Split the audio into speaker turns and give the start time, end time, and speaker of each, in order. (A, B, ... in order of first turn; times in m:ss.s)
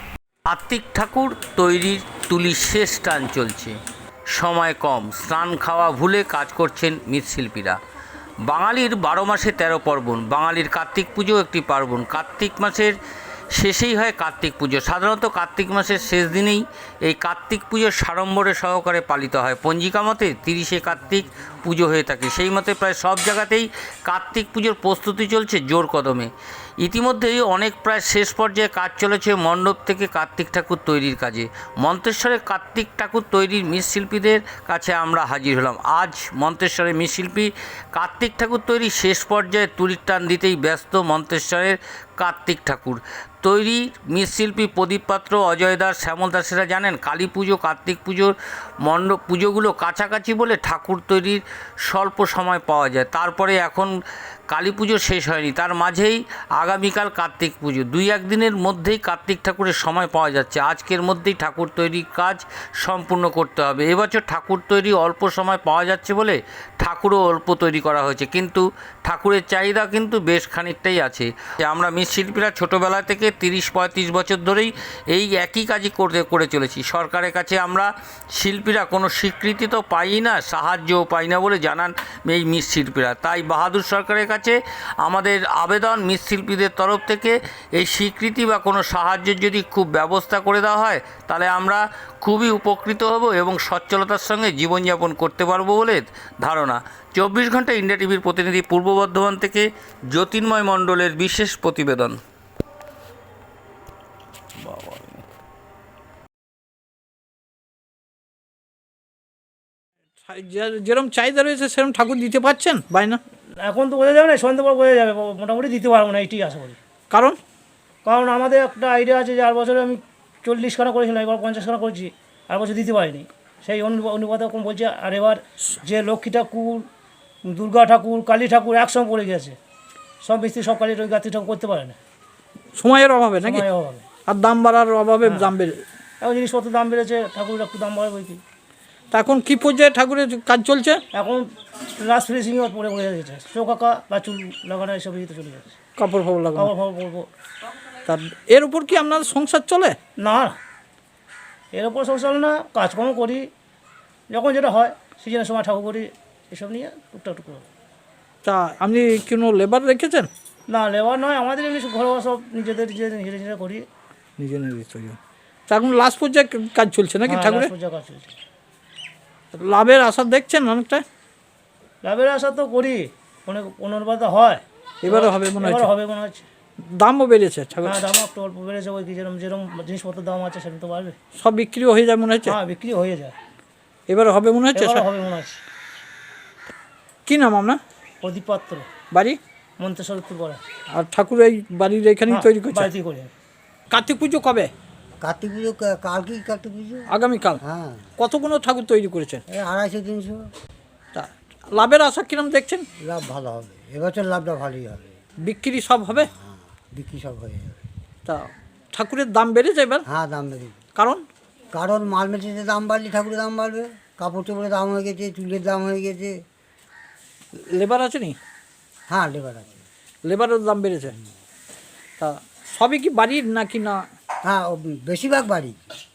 0:00.5-0:03.8 A
0:04.3-0:07.8 A
0:08.5-0:13.0 A
0:13.5-0:26.3 A
0:26.8-0:53.9 A
0:54.5-1:42.2 A
1:44.6-1:45.2 A
1:50.3-1:53.2 B
1:53.6-1:56.8 C
1:57.1-1:57.4 B
1:58.0-2:06.9 C
2:07.4-2:09.6 C
2:10.2-2:12.0 C
2:12.8-2:13.7 B
2:13.4-2:14.0 C
2:14.3-2:15.8 B
2:15.2-2:15.5 C
2:16.2-2:18.4 C
2:19.1-2:21.0 B
2:21.1-2:25.8 C
2:26.0-2:26.7 B
2:26.6-2:27.3 C
2:28.0-2:30.0 B
2:30.2-2:30.6 C
2:31.7-2:33.5 C
2:34.3-2:37.7 C
2:38.4-2:40.3 B
2:40.7-2:43.9 C
2:44.4-2:45.2 B
2:45.7-2:47.7 B
2:47.3-2:48.3 C
2:49.5-2:51.0 B
2:52.0-2:56.4 C
2:55.0-2:55.9 B
2:56.9-2:58.0 B
2:57.8-3:01.2 C
3:01.4-3:02.6 B
3:02.5-3:03.4 C
3:04.1-3:05.1 B
3:04.7-3:05.6 C
3:07.3-3:07.8 B
3:08.2-3:08.9 C
3:09.1-3:09.4 B
3:09.8-3:10.6 C
3:10.9-3:12.9 B
3:12.3-3:13.3 C
3:13.9-3:14.7 B
3:15.2-3:17.1 D
3:17.1-3:17.6 B
3:17.6-3:18.1 D
3:18.2-3:19.4 B
3:19.5-3:20.5 D
3:21.2-3:22.9 B
3:23.0-3:25.2 D
3:25.4-3:26.3 B
3:26.2-3:27.8 D
3:28.3-3:30.0 B
3:30.1-3:30.8 D
3:31.0-3:31.2 B
3:31.7-3:36.4 D
3:37.6-3:38.4 B
3:39.1-3:39.8 D
3:40.2-3:41.2 B
3:42.2-3:44.1 B
3:44.4-3:45.9 D